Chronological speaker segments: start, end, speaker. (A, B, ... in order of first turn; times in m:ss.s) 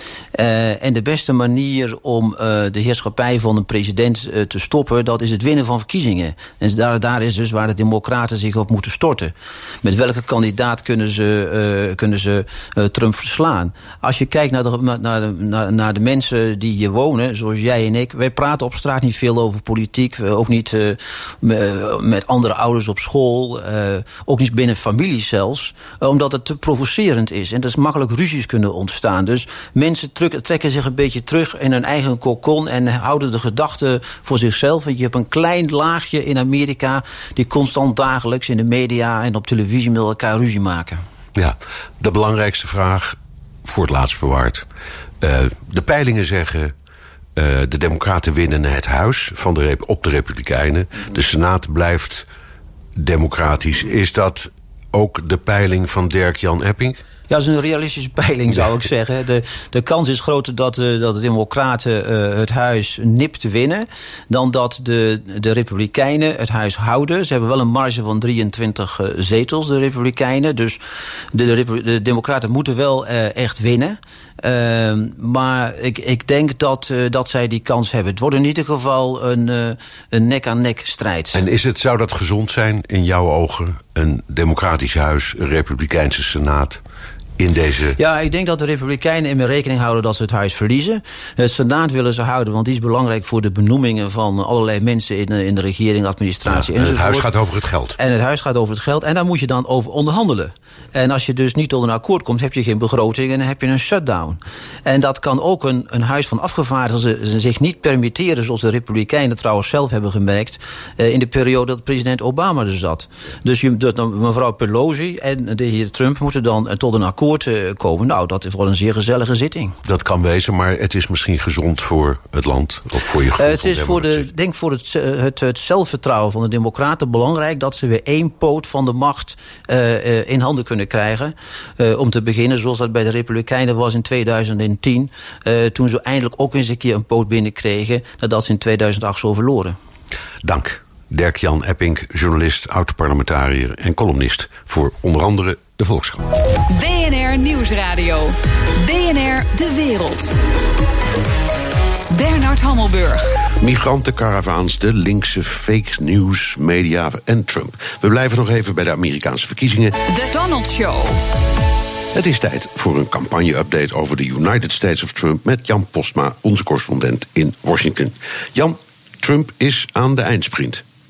0:00.3-0:41.0 A
0:41.3-0:44.6 B
0:45.2-0:46.7 B
0:47.4-0:52.3 B
0:53.0-0:57.0 B
0:57.3-1:10.8 A
1:11.3-1:21.4 A
1:21.3-1:26.8 B
1:27.4-1:28.0 B
1:28.0-1:37.3 A
1:36.5-1:38.0 B
1:38.0-1:59.8 A
1:59.8-2:04.2 B
2:03.4-2:19.8 A
2:20.4-2:26.2 B
2:26.7-2:30.3 C
2:32.1-2:33.3 C
2:33.6-2:40.0 B
2:40.1-2:41.2 C
2:42.1-2:50.8 B